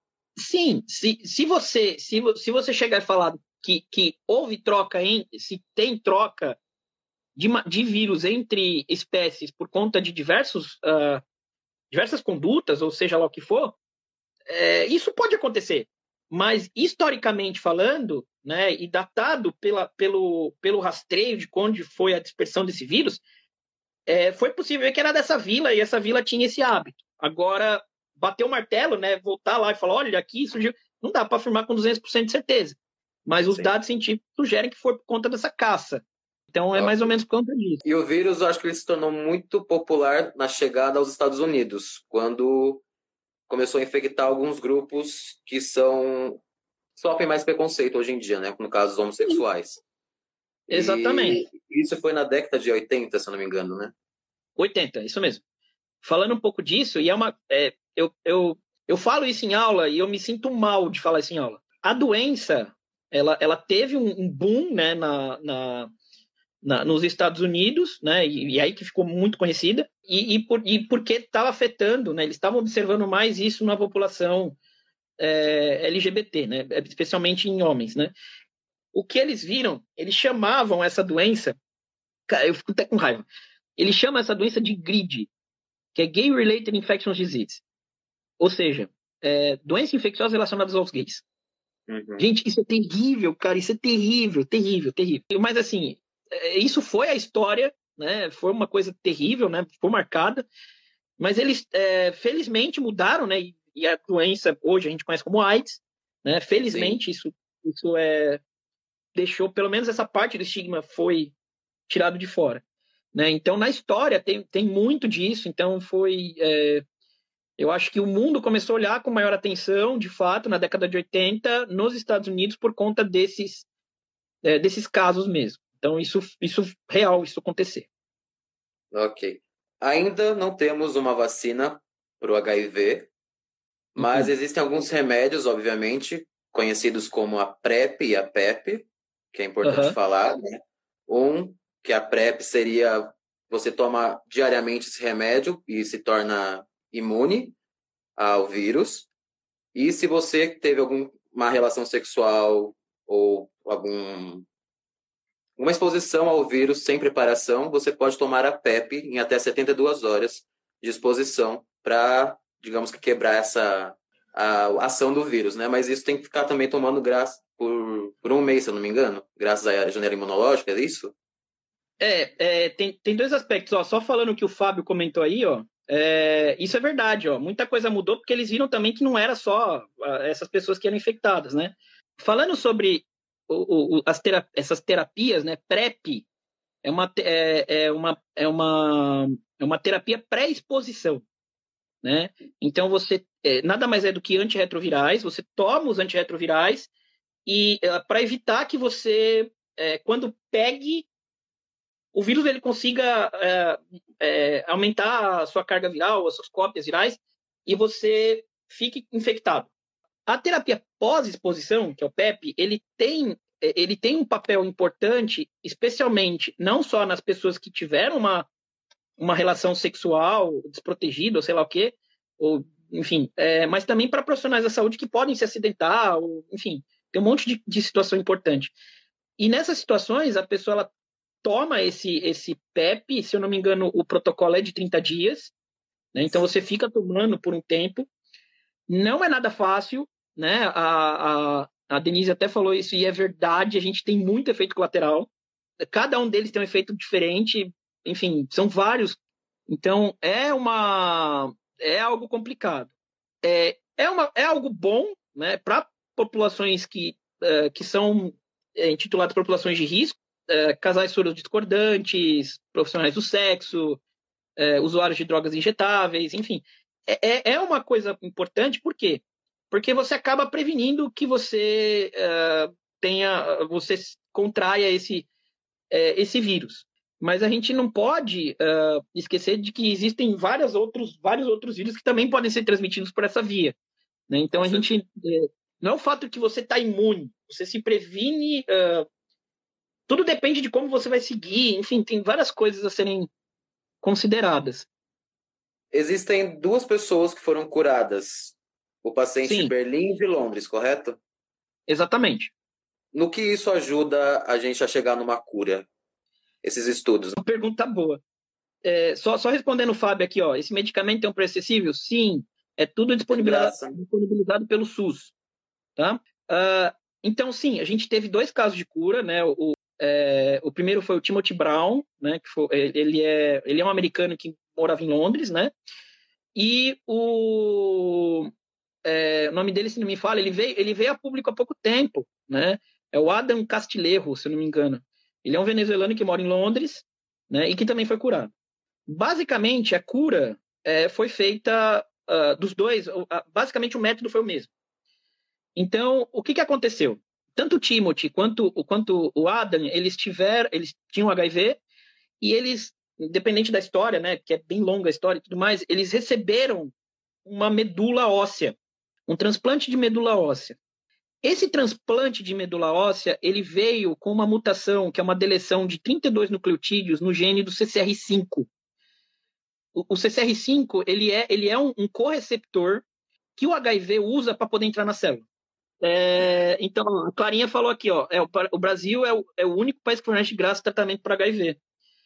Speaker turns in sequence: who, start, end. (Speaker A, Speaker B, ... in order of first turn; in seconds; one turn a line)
Speaker A: 0.4-6.6
Speaker A: 7.4-11.2
Speaker A: 11.9-13.8
Speaker A: 14.5-23.2
Speaker A: 24.1-37.8
Speaker B: 36.8-37.2
Speaker B: 37.8-42.8
Speaker B: 43.5-46.4
Speaker B: 47.0-49.8
Speaker B: 50.7-53.9
Speaker A: 50.7-51.4
Speaker A: 54.6-55.4
Speaker A: 56.0-65.9
Speaker A: 66.6-74.6
Speaker A: 75.2-78.1
Speaker A: 78.9-81.6
Speaker A: 82.3-83.3
Speaker A: 83.8-85.3
Speaker A: 85.9-87.6
Speaker A: 88.4-91.2
Speaker B: 91.9-92.2
Speaker A: 92.2-100.5
Speaker A: 101.2-108.4
Speaker B: 106.7-107.0
Speaker A: 109.2-111.3
Speaker A: 111.9-112.6
Speaker A: 113.1-116.8
Speaker A: 117.6-123.7
Speaker A: 124.4-127.9
Speaker B: 128.9-133.1
Speaker B: 134.0-147.6
Speaker A: 134.0-134.3
Speaker A: 139.6-140.0
Speaker B: 148.2-149.1
Speaker B: 149.8-154.4
Speaker B: 155.6-171.1
Speaker A: 172.0-186.3
Speaker A: 186.8-191.2
Speaker A: 192.0-196.9
Speaker A: 197.5-201.1
Speaker A: 202.1-209.7
Speaker A: 210.3-218.5
Speaker A: 219.2-228.7
Speaker A: 229.4-230.9
Speaker A: 231.4-235.5
Speaker A: 236.1-238.1
Speaker A: 238.9-245.3
Speaker A: 245.8-252.9
Speaker A: 253.4-264.0
Speaker A: 264.6-275.3
Speaker A: 275.9-283.8
Speaker A: 284.3-289.1
Speaker B: 284.5-284.9
Speaker A: 290.1-293.3
Speaker A: 294.0-294.9
Speaker B: 295.9-301.2
Speaker A: 299.5-299.7
Speaker A: 301.9-302.5
Speaker B: 303.1-305.9
Speaker B: 306.6-307.4
Speaker A: 307.4-308.2
Speaker A: 308.9-315.3
Speaker B: 313.3-314.0
Speaker A: 316.0-325.7
Speaker A: 326.6-328.5
Speaker A: 329.1-338.5
Speaker A: 339.1-344.7
Speaker A: 345.8-351.8
Speaker A: 352.4-356.9
Speaker A: 357.4-360.8
Speaker A: 361.4-368.7
Speaker A: 369.9-373.1
Speaker A: 373.6-375.4
Speaker A: 376.0-381.8